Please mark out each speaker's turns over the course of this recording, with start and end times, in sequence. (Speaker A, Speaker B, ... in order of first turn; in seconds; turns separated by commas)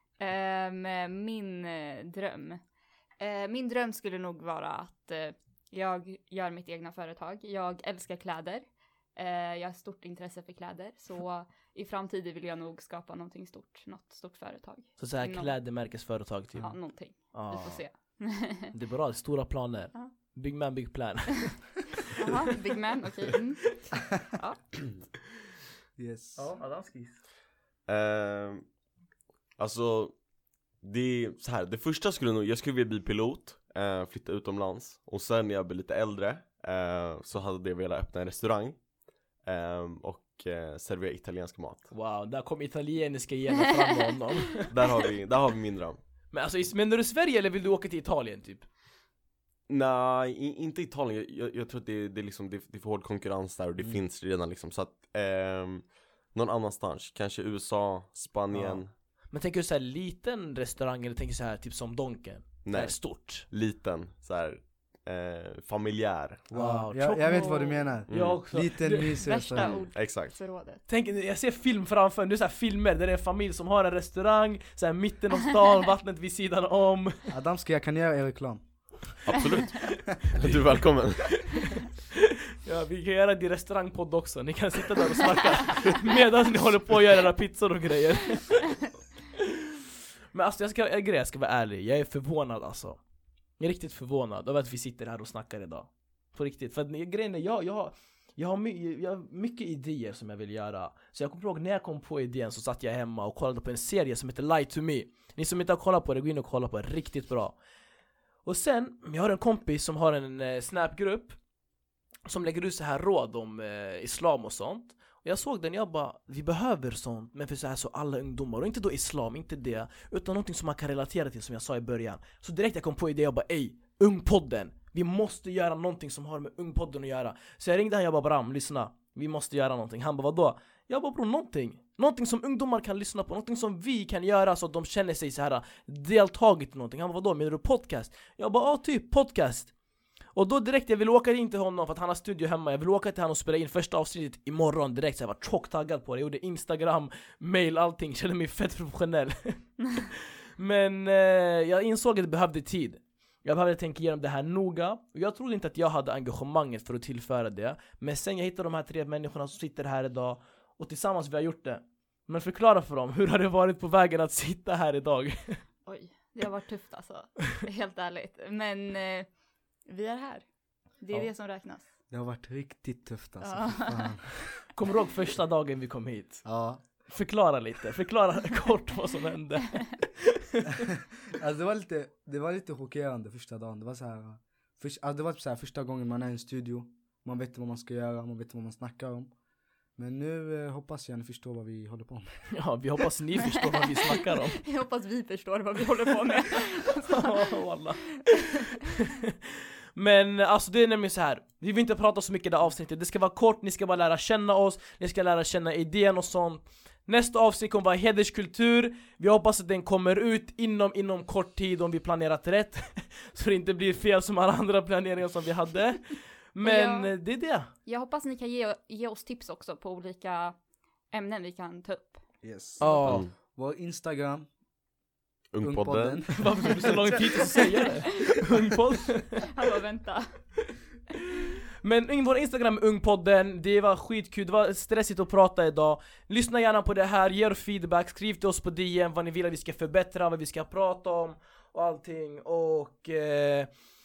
Speaker A: 0.2-2.6, Speaker A: 3.2-8.6, Speaker A: 9.2-15.6, Speaker B: 15.0-17.8, Speaker A: 16.6-18.7, Speaker B: 18.5-21.9, Speaker A: 22.1-24.6, Speaker C: 26.0-26.5, Speaker B: 26.4-27.2, Speaker D: 27.9-28.6, Speaker D: 29.6-30.1, Speaker D: 30.8-38.8, Speaker D: 39.5-41.9, Speaker B: 41.9-44.7, Speaker D: 44.7-46.0, Speaker B: 46.3-48.7, Speaker D: 49.7-58.9, Speaker B: 58.5-58.8, Speaker B: 59.3-63.5, Speaker D: 62.6-66.5, Speaker C: 66.5-69.8, Speaker B: 66.5-67.5, Speaker A: 67.2-68.0, Speaker D: 68.1-68.4, Speaker B: 68.1-69.2, Speaker A: 69.2-70.8, Speaker D: 69.9-70.3, Speaker B: 70.9-77.1, Speaker C: 77.3-78.6, Speaker D: 79.3-79.7, Speaker D: 80.3-81.4, Speaker B: 80.4-80.7, Speaker B: 81.2-88.8, Speaker B: 89.3-89.8, Speaker B: 90.3-93.0, Speaker B: 93.6-107.5, Speaker B: 108.4-111.4, Speaker B: 112.3-139.7, Speaker B: 140.3-165.6, Speaker A: 165.8-169.3, Speaker A: 169.9-170.4, Speaker A: 171.0-171.9, Speaker C: 172.1-174.6, Speaker A: 173.4-174.1, Speaker B: 174.7-176.4, Speaker C: 176.4-176.8, Speaker B: 177.1-180.7, Speaker C: 180.8-189.3, Speaker C: 190.0-192.3, Speaker B: 192.5-194.6, Speaker A: 193.5-197.5, Speaker B: 196.9-199.3, Speaker A: 198.3-198.7, Speaker B: 199.9-217.7, Speaker A: 216.6-217.1, Speaker A: 217.8-220.5, Speaker A: 221.1-222.2, Speaker C: 222.4-224.4, Speaker B: 222.8-223.3, Speaker D: 223.0-223.3, Speaker D: 225.5-226.2, Speaker C: 225.6-227.5, Speaker B: 226.3-229.4, Speaker A: 229.3-230.2, Speaker B: 231.8-243.7